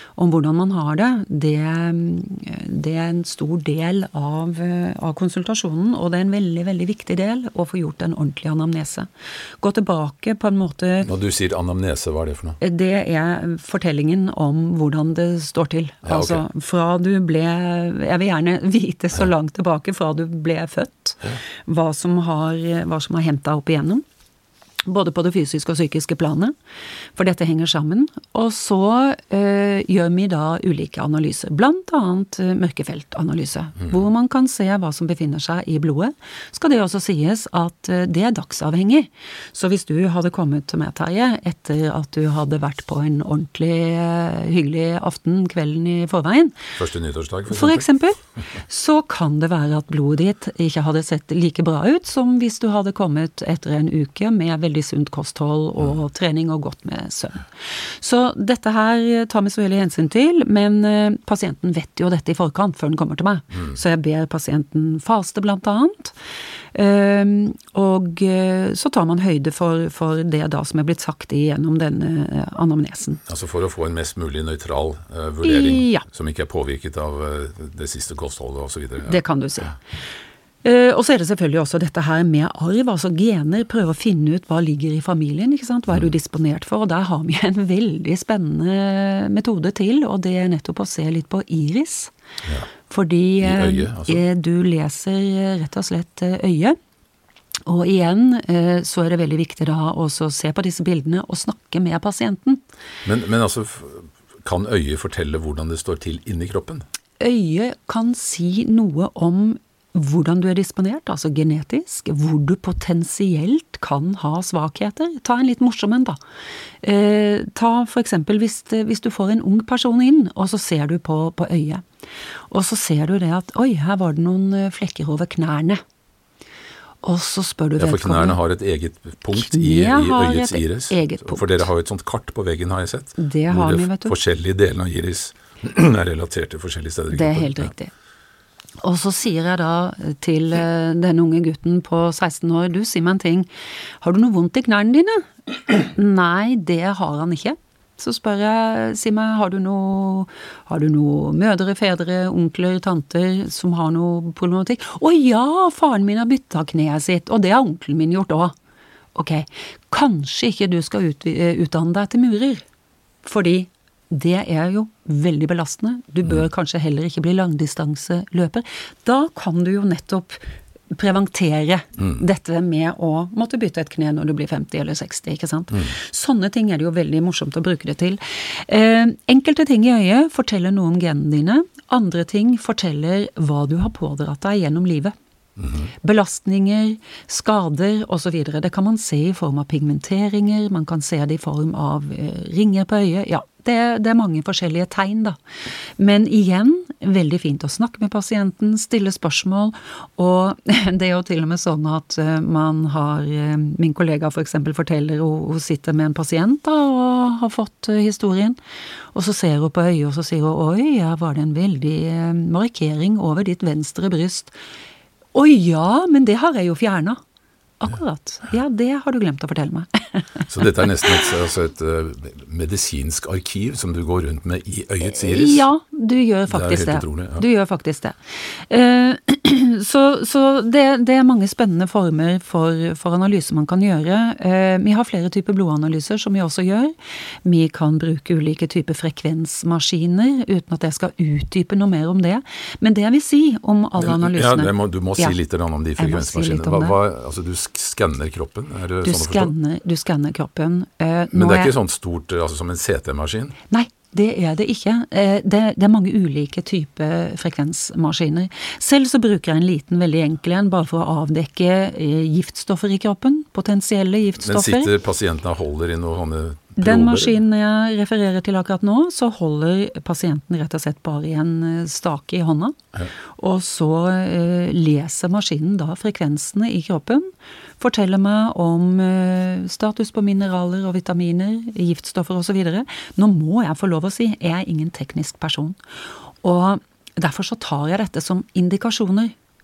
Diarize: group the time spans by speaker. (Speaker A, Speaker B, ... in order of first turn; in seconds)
Speaker A: 0.2-9.1, 9.6-11.1, 12.6-24.0, 24.9-26.6, 27.1-46.7, 47.5-66.1, 66.7-73.2, 75.4-76.0, 79.1-79.8, 80.6-92.1, 92.9-96.8, 97.7-102.6, 107.2-116.2, 116.8-121.8, 122.5-125.8, 127.0-128.4, 129.3-131.7, 133.2-134.2, 137.1-137.9, 138.8-143.5, 144.0-158.5, 159.1-162.6, 163.2-185.1, 186.0-195.4, 196.0-208.6, 209.1-214.6, 215.3-217.2, 217.8-221.2, 225.1-245.4, 246.0-246.9, 249.0-251.7, 253.7-264.9, 266.8-272.8, 273.4-277.3, 277.8-285.8, 286.4-289.4
Speaker B: 11.1-12.6, 16.1-16.4, 46.8-47.9, 73.3-79.2, 93.4-94.2, 103.0-106.8, 127.8-137.7, 185.6-185.9, 220.5-225.7, 226.5-227.4, 244.0-249.5, 251.3-253.6, 264.4-267.4